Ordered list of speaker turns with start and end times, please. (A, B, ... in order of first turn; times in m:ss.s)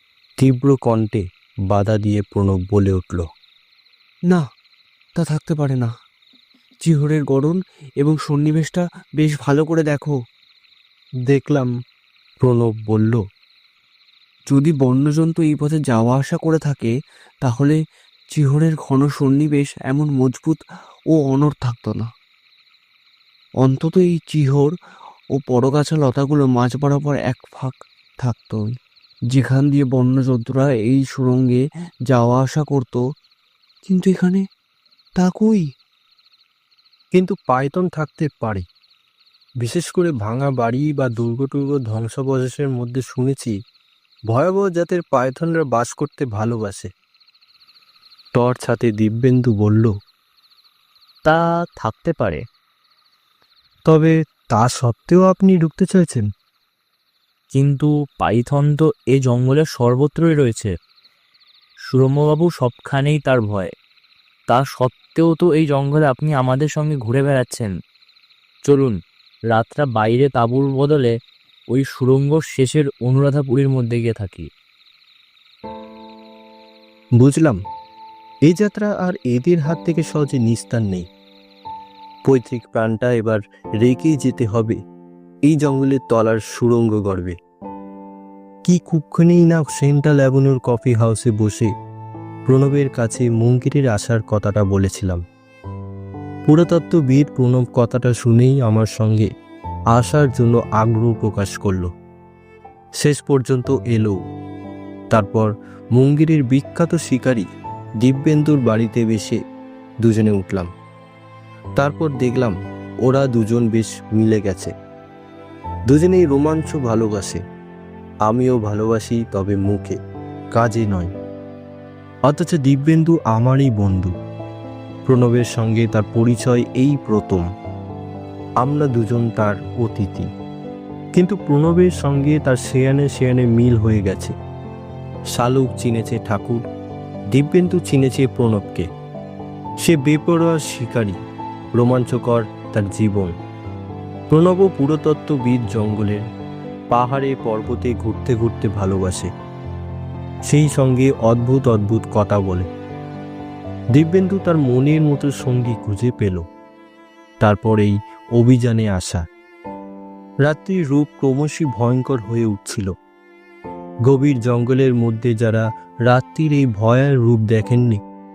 0:00.4-0:03.3 A
0:05.2-0:05.9 B
0:06.8-0:10.2 B
0:11.3-0:11.7 A
0:12.4-0:13.2 A
0:14.5-0:16.9 B
0:17.4-0:17.8 B
0:18.3-0:20.6 B
0:21.1-0:22.1 B
0:23.6-0:24.7 B
0:25.3-0:28.8 B
0:29.3-0:33.0 B
0:33.9-0:34.4 B
0:35.2-0:35.6 B
0:37.1-0:38.6 A
0:39.6-0:43.6 A
0:44.3-0:46.9 A
0:48.4-0:49.9 A
0:51.3-0:52.4 C
0:53.9-0:56.3 A
0:57.5-1:00.7 C
1:01.9-1:03.7 C
1:04.5-1:07.7 C
1:08.6-1:09.0 C
1:09.5-1:11.1 C
1:11.7-1:14.5 C
1:17.2-1:17.6 A
1:18.5-1:21.1 A
1:22.3-1:24.8 A
1:25.5-1:27.4 A
1:28.7-1:31.7 A
1:32.5-1:35.2 A
1:36.5-1:39.3 A
1:39.9-1:41.9 A
1:43.0-1:44.2 A
1:45.1-1:47.5 A
1:48.0-1:49.4 A
1:50.0-1:50.7 A
1:51.8-1:54.7 A
1:55.9-1:57.4 A
1:58.3-2:00.0 A
2:00.6-2:01.1 A
2:02.3-2:04.1 A
2:05.1-2:07.5 A
2:08.6-2:10.3 A
2:11.2-2:14.3 A
2:15.3-2:16.6 A
2:17.3-2:18.9 A
2:19.8-2:21.2 A
2:21.8-2:23.3 A
2:24.3-2:26.2 A
2:26.9-2:29.3 A
2:30.5-2:32.7 A
2:33.9-2:36.4 A
2:37.4-2:39.2 A
2:40.4-2:42.9 A
2:44.1-2:48.0 A